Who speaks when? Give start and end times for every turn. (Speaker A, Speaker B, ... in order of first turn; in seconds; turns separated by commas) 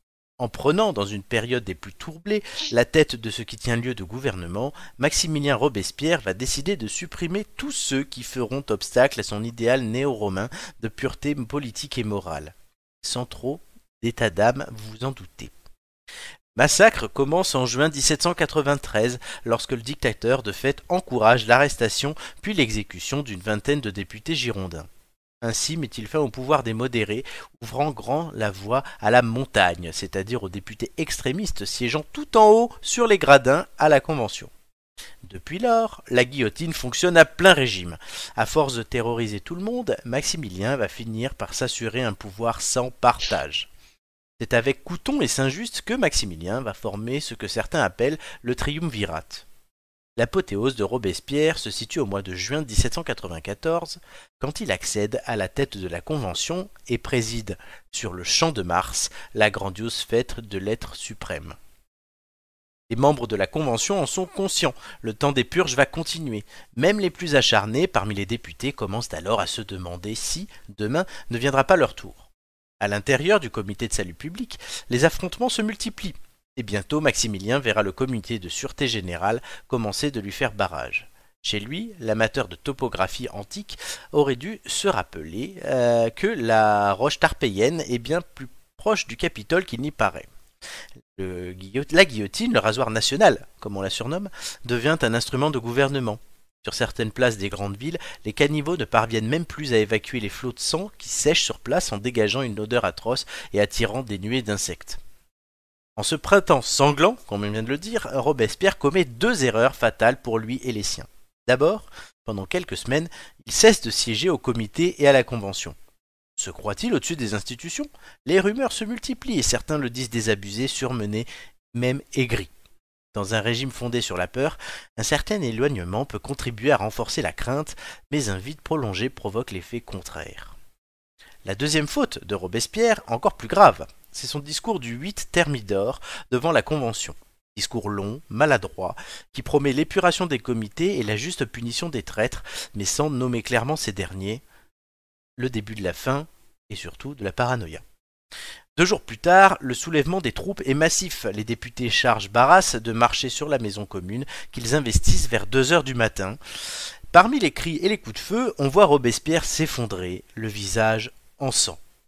Speaker A: 0.4-15.5, Speaker A: 16.6-24.9, Speaker A: 25.4-34.5, Speaker A: 35.2-43.7, Speaker A: 44.4-49.5, Speaker A: 50.2-61.6, Speaker A: 62.9-72.3, Speaker A: 72.8-90.3, Speaker A: 91.2-105.0, Speaker A: 106.0-115.8, Speaker A: 116.4-122.5, Speaker A: 123.1-130.6, Speaker A: 131.4-144.4, Speaker A: 145.4-147.8, Speaker A: 148.8-156.4, Speaker A: 157.1-161.8